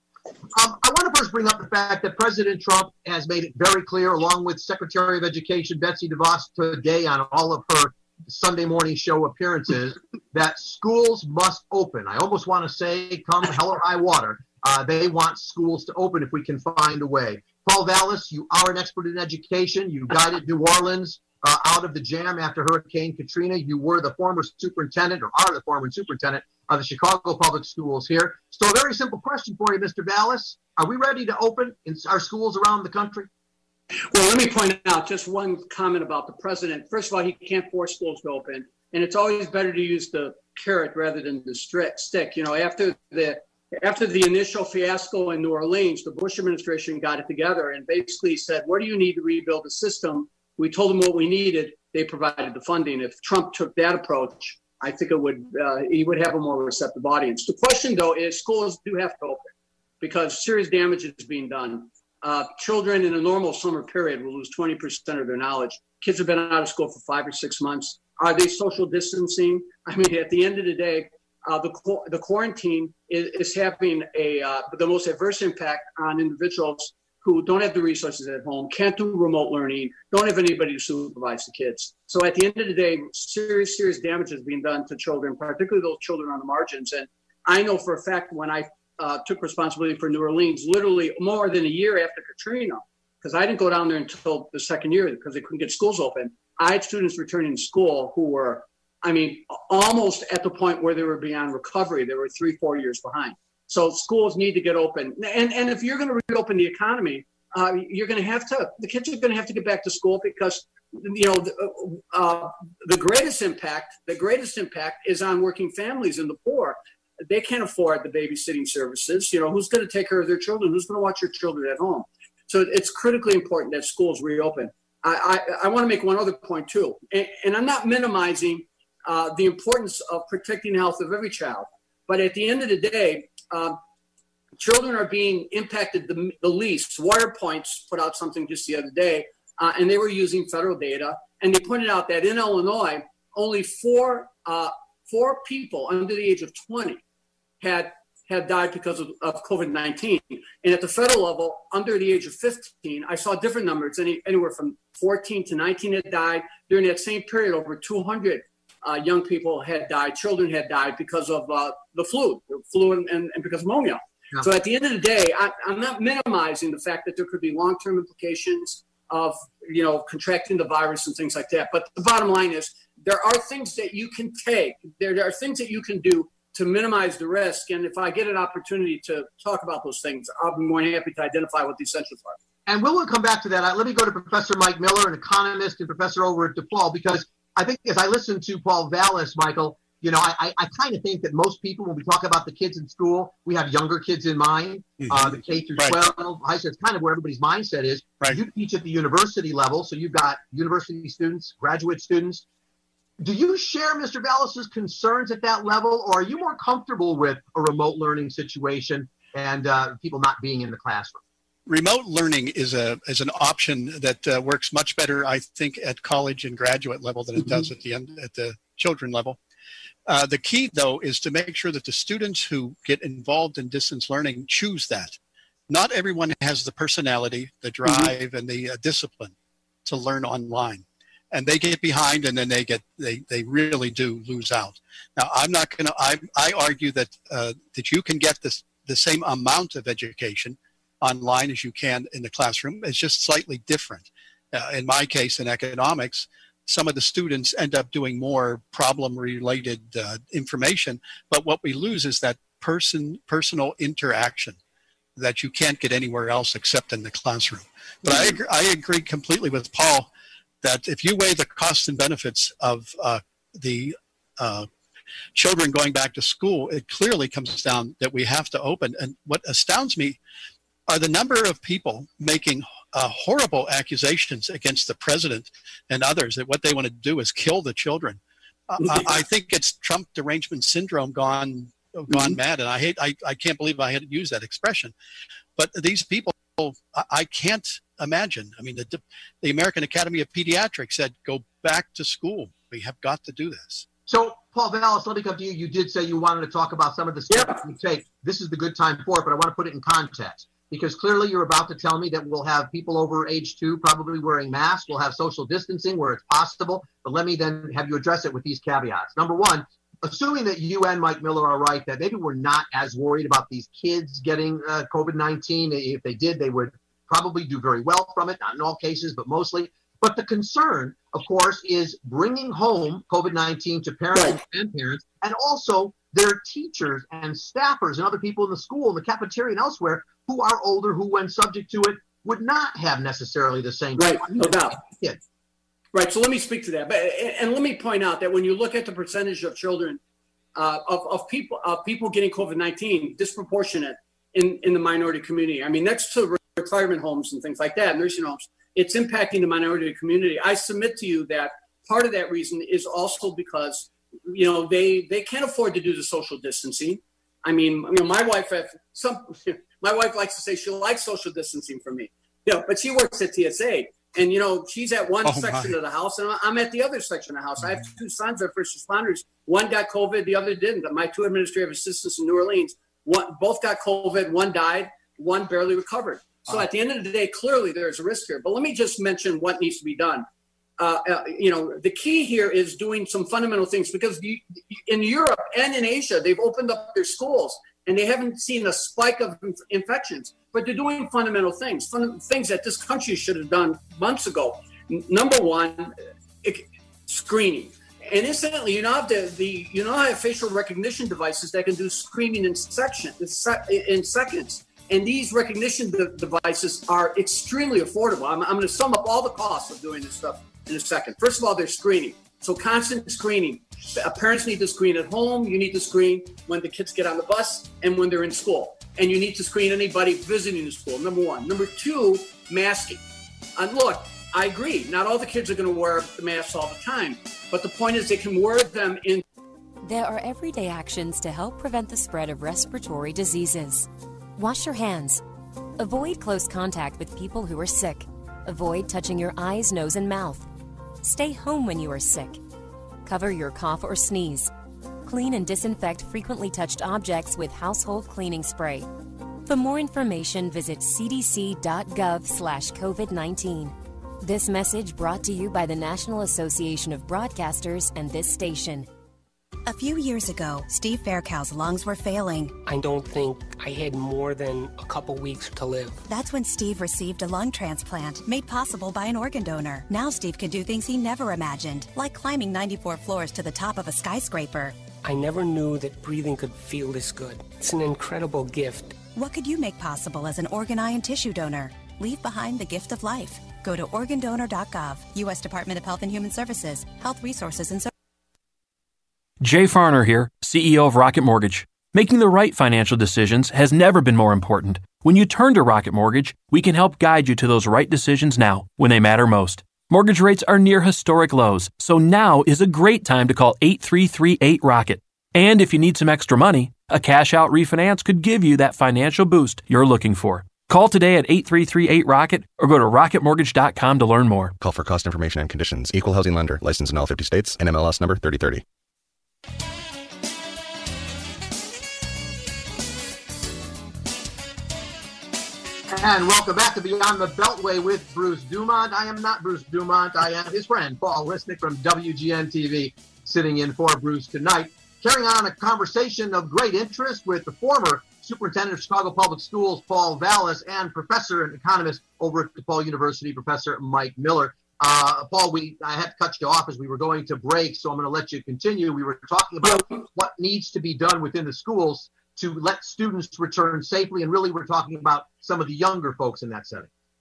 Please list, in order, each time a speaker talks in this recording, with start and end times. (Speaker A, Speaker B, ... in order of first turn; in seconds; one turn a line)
Speaker A: 0.5-33.3
Speaker B: 34.0-133.8
Speaker B: 134.6-147.0
Speaker B: 147.6-182.4
Speaker A: 182.7-202.4
Speaker C: 195.0-196.0
Speaker A: 203.2-211.2
Speaker C: 211.7-219.4
Speaker C: 220.1-225.2
Speaker C: 225.7-254.6
Speaker C: 255.2-260.1
Speaker C: 260.6-264.7
Speaker C: 265.4-270.2
Speaker C: 270.9-284.9
Speaker C: 285.6-293.9
Speaker A: 294.1-335.2
Speaker B: 297.3-297.6
Speaker B: 324.1-324.4
Speaker B: 334.0-334.8
Speaker B: 335.9-340.0
Speaker B: 340.6-380.2
Speaker C: 365.2-365.8
Speaker B: 380.8-423.0
Speaker B: 423.6-429.2
Speaker D: 429.8-435.2
Speaker D: 435.8-440.5
Speaker D: 441.0-442.4
Speaker D: 443.0-444.5
Speaker D: 445.0-448.9
Speaker D: 449.4-458.9
Speaker E: 459.6-462.6
Speaker F: 462.6-466.0
Speaker E: 466.1-474.8
Speaker F: 475.0-478.9
Speaker E: 479.1-487.9
Speaker G: 489.4-514.5
Speaker H: 514.6-518.6
Speaker A: 525.9-556.9
Speaker B: 549.6-550.0